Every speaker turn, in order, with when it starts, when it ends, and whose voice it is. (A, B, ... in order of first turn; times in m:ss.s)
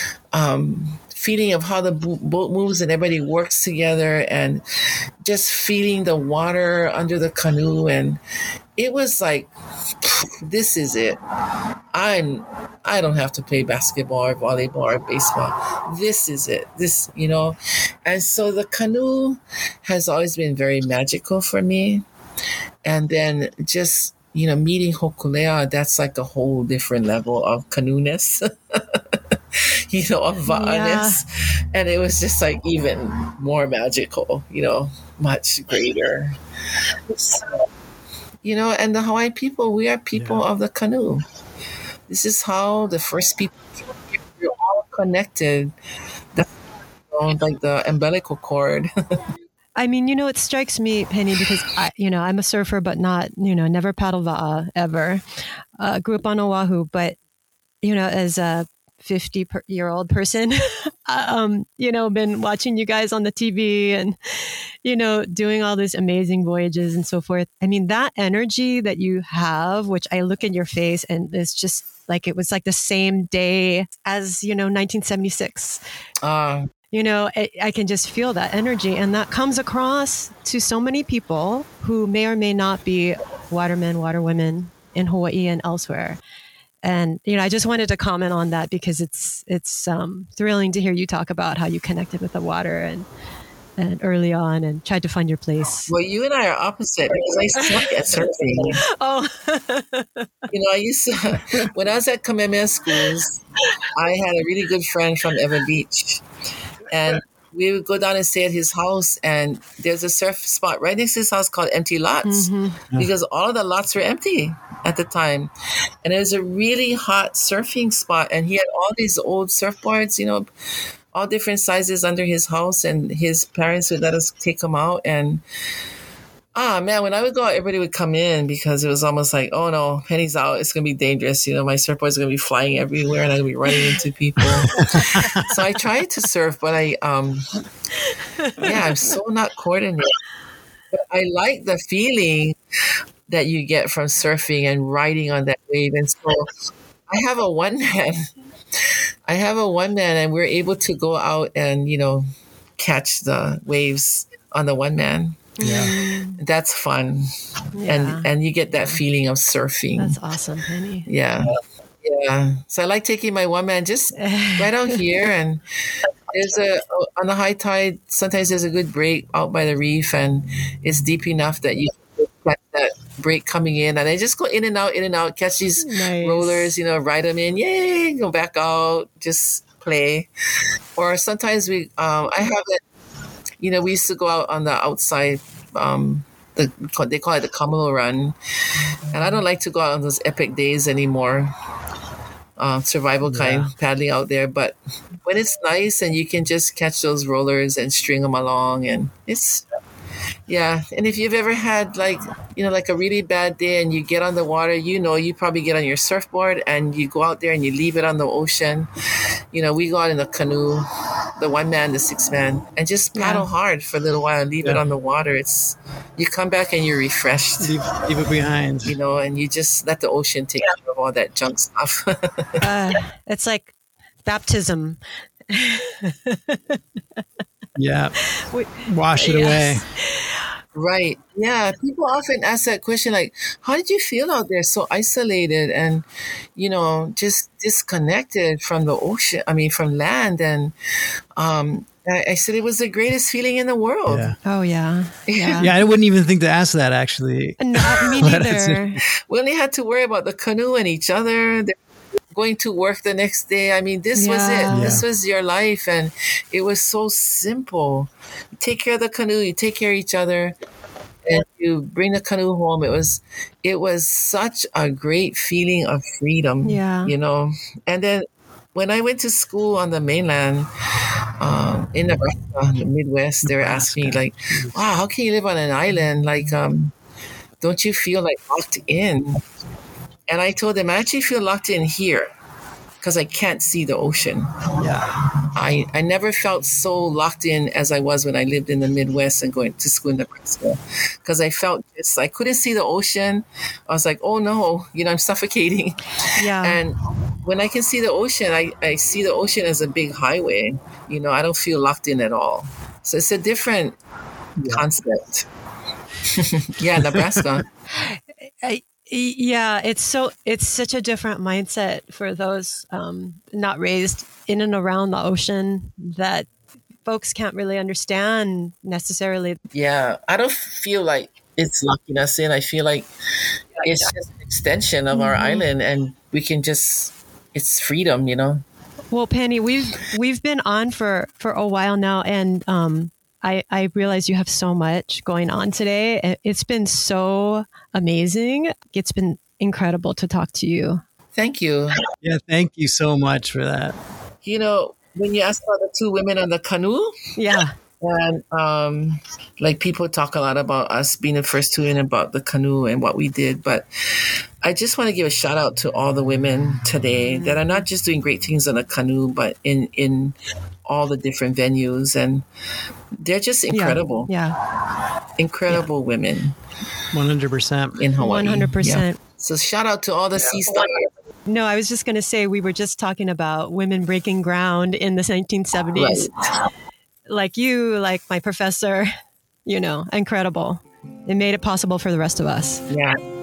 0:00.3-0:04.6 A
0:05.2-0:08.2 A
0:08.8-0:09.5 A
0:10.0-0:11.2 A
0:11.9-0:22.0 A
0:22.8-0:36.4 A
0:30.5-0:31.2 B
0:37.1-0:37.6 A
0:38.4-0:41.2 A
0:40.1-0:40.4 C
0:42.1-0:45.7 A
0:47.1-0:48.9 A
0:49.8-0:55.2 B
0:55.8-0:57.2 B
0:57.8-1:15.8 B
1:16.2-1:16.7 A
1:16.9-1:26.2 B
1:26.8-1:33.1 B
1:33.8-1:35.9 B
1:35.9-1:38.8 A
1:37.6-1:37.9 B
1:38.6-1:40.3 B
1:40.5-1:46.2 A
1:46.9-1:55.5 A
1:52.2-1:52.8 B
1:56.0-2:00.5 A
2:01.1-2:05.4 A
2:06.6-2:17.4 A
2:14.6-2:15.5 C
2:18.0-2:18.9 B
2:18.6-2:20.1 A
2:20.9-2:22.6 A
2:23.3-2:26.5 A
2:27.1-2:28.2 A
2:29.3-2:32.2 A
2:32.8-2:37.3 A
2:35.6-2:36.4 B
2:35.6-2:35.9 C
2:37.8-2:38.3 B
2:37.9-2:40.2 A
2:40.0-2:41.1 B
2:41.1-3:00.3 A
2:44.2-2:45.0 B
2:55.8-2:56.7 B
3:01.0-3:02.8 A
3:03.6-3:08.4 A
3:09.1-3:11.5 A
3:12.6-3:19.6 A
3:13.2-3:13.7 C
3:20.5-3:28.9 A
3:29.5-3:30.8 A
3:31.4-3:37.8 A
3:33.2-3:33.5 B
3:37.6-3:39.0 C
3:38.8-3:42.6 A
3:42.6-3:43.7 B
3:44.2-3:47.2 B
3:47.8-3:48.2 C
3:48.2-3:50.4 B
3:48.8-3:49.8 C
3:50.7-3:56.0 A
3:56.6-4:00.7 A
4:01.4-4:04.3 A
4:04.1-4:04.4 C
4:04.4-4:05.7 B
4:05.3-4:05.7 A
4:05.6-4:09.0 C
4:07.6-4:09.0 B
4:09.3-4:11.8 A
4:12.3-4:20.6 A
4:14.2-4:14.9 B
4:14.7-4:15.0 C
4:21.2-4:30.7 A
4:26.6-4:27.1 B
4:31.4-4:36.9 A
4:33.4-4:34.8 C
4:37.6-4:39.4 A
4:40.3-4:42.3 A
4:43.0-4:44.5 A
4:44.8-4:45.1 C
4:45.5-5:04.0 A
4:56.4-4:56.8 B
5:04.6-5:04.8 C
5:04.7-5:05.5 A
5:06.3-5:07.7 A
5:06.9-5:07.4 C
5:07.9-5:16.5 B
5:17.0-5:19.6 B
5:19.7-5:23.1 A
5:23.8-5:28.6 A
5:25.1-5:25.7 B
5:29.1-5:41.0 B
5:41.4-5:42.0 A
5:42.2-5:44.0 C
5:44.4-5:47.2 A
5:47.4-5:47.8 B
5:48.0-6:00.4 A
5:57.3-5:57.8 B
6:00.9-6:02.4 A
6:03.2-6:04.3 A
6:03.7-6:04.6 B
6:05.4-6:06.6 A
6:07.1-6:08.0 C
6:08.0-6:11.1 A
6:08.2-6:09.2 B
6:11.5-6:16.3 B
6:16.0-6:16.3 A
6:17.3-6:19.1 B
6:19.6-6:22.8 B
6:22.9-6:23.2 A